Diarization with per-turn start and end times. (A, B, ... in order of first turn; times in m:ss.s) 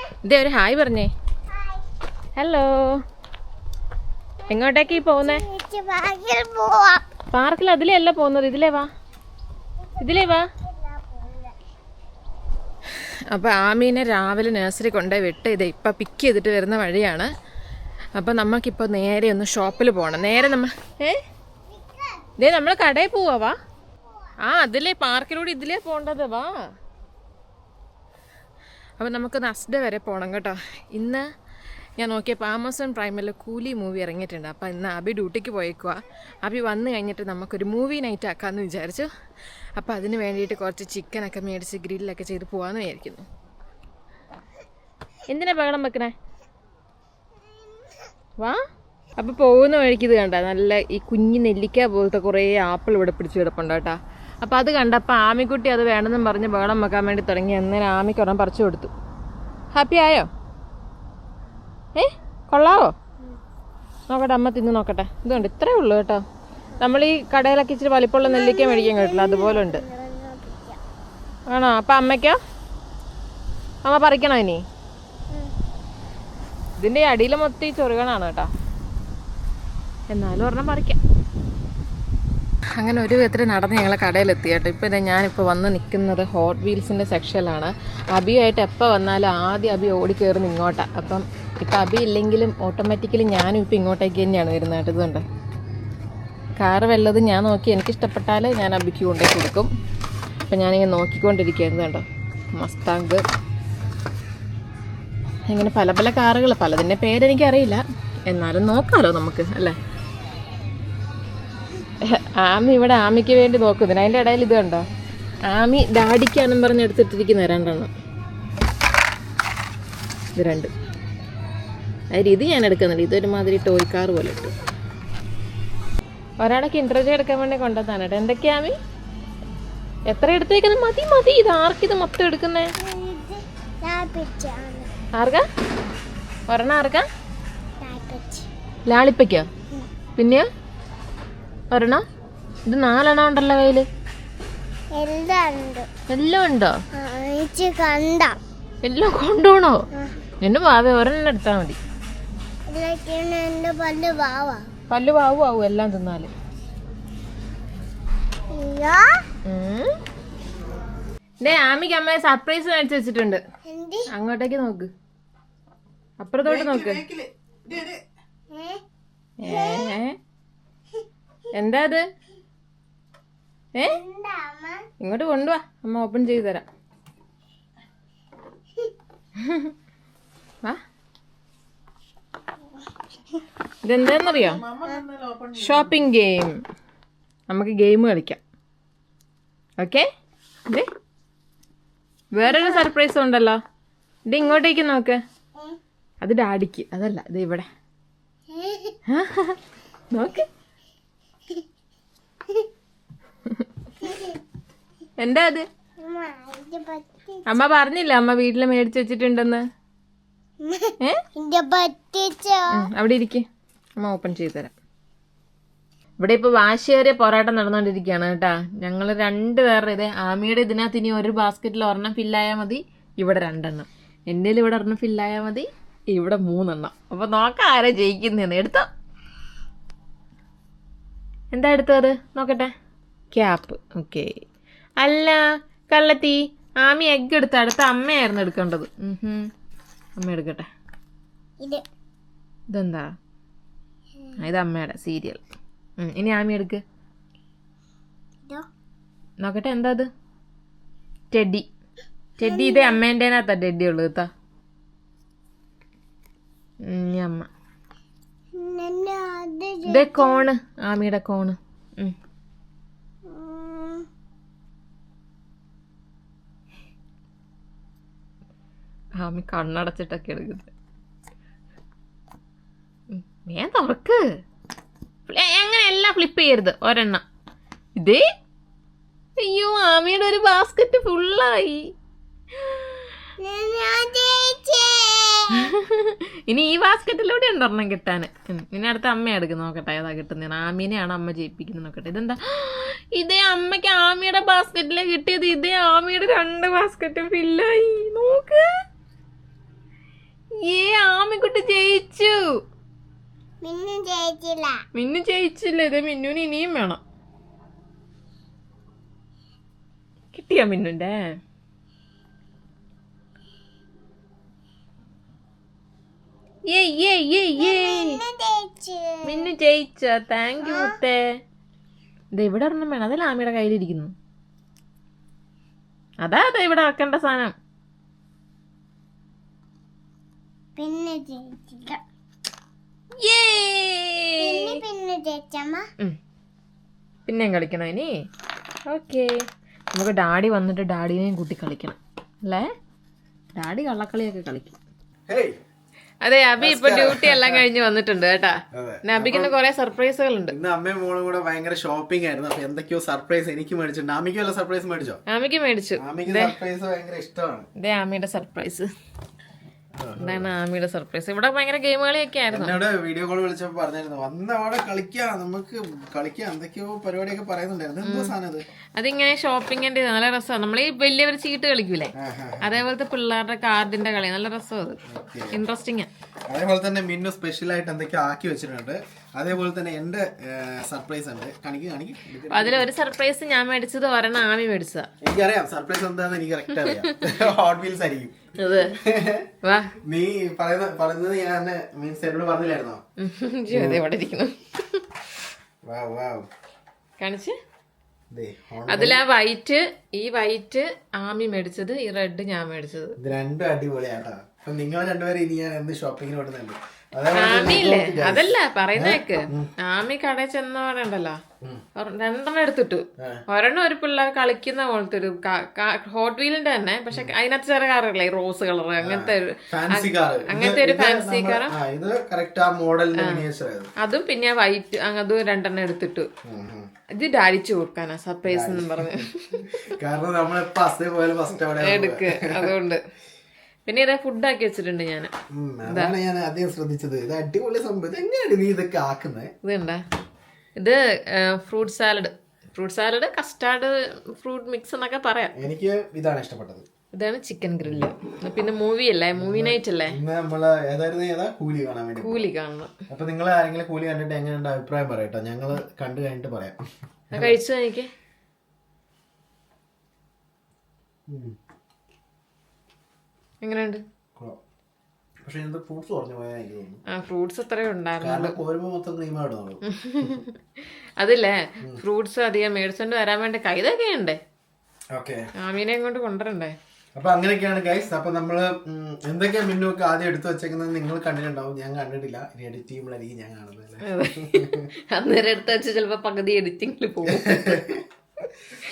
0:00.2-0:01.1 A
0:02.4-0:03.0 A
0:04.5-0:05.4 A
0:05.1-0:07.0 B
0:07.3-0:08.9 A
0:10.0-0:10.5 A
0:10.6-0:11.5 B
0:13.3-0:17.3 A
0:18.2-0:21.2 A
0:22.4-0:23.6 A
0:24.4-0:26.7 A
0:29.0-0:31.3 A
0:32.0-0:39.1 A
0:39.8-0:43.3 A
0:45.3-0:46.1 A
0:49.2-0:58.9 A
0:59.7-1:00.3 A
1:02.0-1:02.9 A
1:04.1-1:06.2 A
1:06.8-1:09.8 A
1:08.2-1:10.8 B
1:11.5-1:12.4 A
1:13.8-1:14.6 A
1:16.8-1:18.5 A
1:20.1-1:21.0 A
1:22.8-1:35.2 A
1:36.6-1:39.7 A
1:40.5-1:43.2 A
1:45.5-1:49.8 A
1:52.0-1:54.9 A
1:55.5-1:57.9 A
2:00.4-2:00.7 A
2:02.1-2:04.5 A
2:06.4-2:08.8 A
2:10.1-2:12.7 A
2:12.8-2:14.9 B
2:15.2-2:15.4 A
2:16.5-2:17.1 A
2:17.8-2:18.5 B
2:18.9-2:19.5 A
2:20.2-2:20.5 A
2:21.7-2:22.0 A
2:22.7-2:23.9 A
2:24.9-2:25.9 B
2:26.1-2:26.8 A
2:26.9-2:28.4 B
2:28.8-2:29.8 A
2:30.4-2:31.8 A
2:32.7-2:34.7 B
2:34.9-2:36.3 A
2:38.5-2:39.1 B
2:39.5-2:40.0 A
2:41.4-2:43.4 A
2:43.6-2:44.1 B
2:44.1-2:44.9 A
2:46.2-2:47.0 A
2:46.4-2:48.0 C
2:48.5-2:48.8 B
2:49.4-2:50.2 A
2:49.5-2:49.9 B
2:51.6-2:52.1 A
2:53.8-2:54.8 B
2:55.0-2:56.6 A
2:59.4-2:59.7 A
3:03.8-3:04.6 A
3:04.4-3:05.9 C
3:05.6-3:06.6 A
3:07.5-3:08.4 A
3:09.8-3:10.1 A
3:12.3-3:13.6 A
3:12.4-3:12.9 B
3:14.3-3:15.2 A
3:16.2-3:17.7 A
3:18.5-3:19.0 B
3:19.1-3:19.6 A
3:20.1-3:20.5 A
3:24.0-3:24.4 B
3:25.2-3:25.7 A
3:26.0-3:27.5 B
3:27.5-3:29.6 A
3:30.6-3:32.9 B
3:32.7-3:33.4 A
3:34.0-3:34.7 A
3:36.2-3:48.9 A
3:51.5-3:52.7 A
3:53.3-3:54.4 A
3:55.0-3:59.5 A
4:00.2-4:00.7 A
4:02.7-4:03.1 A
4:04.4-4:05.4 A
4:06.0-4:06.8 A
4:09.4-4:10.1 A
4:11.3-4:11.7 A
4:12.4-4:14.3 A
4:12.4-4:13.0 B
4:16.9-4:17.5 A
4:18.6-4:20.5 B
4:19.9-4:22.2 A
4:23.3-4:24.1 B
4:29.2-4:30.7 A
4:33.1-4:34.2 A
4:35.3-4:37.2 A
4:38.0-4:38.3 A
4:39.4-4:41.9 A
4:42.6-4:43.2 A
4:43.4-4:45.7 B
4:45.6-4:58.6 A
5:00.6-5:02.6 A
5:03.6-5:04.8 B
5:05.0-5:07.0 A
5:10.3-5:11.2 A
5:16.7-5:18.2 A
5:17.6-5:19.5 B
5:19.2-5:21.4 A
5:20.6-5:21.0 B
5:22.3-5:24.1 A
5:26.2-5:27.5 A
5:30.8-5:32.0 B
5:33.2-5:34.8 A
5:34.4-5:35.8 B
5:37.3-5:38.1 A
5:38.9-5:42.7 A
5:43.6-5:44.7 A
5:45.3-5:45.6 C
5:46.2-5:50.6 A
5:46.6-5:47.6 C
5:48.7-5:49.5 C
5:50.5-5:55.2 C
5:55.3-5:56.6 A
5:56.0-5:57.7 C
5:57.8-5:58.9 A
6:00.0-6:00.5 C
6:00.2-6:02.8 A
6:02.5-6:08.6 C
6:08.0-6:08.4 A
6:09.0-6:15.0 A
6:12.2-6:12.8 C
6:15.1-6:15.6 C
6:15.5-6:16.1 A
6:16.5-6:22.9 C
6:22.5-6:25.1 A
6:25.2-6:28.4 C
6:26.7-6:27.4 A
6:28.6-6:29.0 A
6:29.0-6:29.5 C
6:29.6-6:30.0 A
6:30.0-6:33.0 C
6:33.2-6:35.1 A
6:33.7-6:34.1 C
6:35.8-6:36.5 C
6:37.2-6:37.6 A
6:38.3-6:39.2 C
6:38.9-6:43.2 A
6:43.2-6:49.7 C
6:47.3-6:51.4 A
6:52.0-7:01.8 A
6:53.2-6:53.4 C
6:59.0-7:03.9 C
7:03.2-7:03.5 A
7:04.0-7:06.3 A
7:06.4-7:06.9 C
7:07.2-7:09.9 A
7:08.4-7:12.8 C
7:11.7-7:13.0 A
7:13.9-7:15.3 A
7:15.5-7:19.5 C
7:15.8-7:16.2 A
7:19.6-7:20.0 A
7:20.8-7:25.6 A
7:25.6-7:26.9 C
7:27.1-7:30.2 A
7:27.8-7:28.1 C
7:29.4-7:32.5 C
7:32.2-7:32.9 A
7:33.1-7:37.6 C
7:37.3-7:38.1 A
7:41.3-7:41.6 C
7:43.6-7:44.0 A
7:45.4-7:47.0 C
7:47.1-7:48.6 A
7:48.2-7:50.3 C
7:49.8-7:50.6 A
7:51.2-7:54.4 A
7:55.1-7:55.4 C
7:55.6-7:56.8 A
7:57.2-8:04.9 C
8:04.0-8:08.0 A
8:07.2-8:08.0 C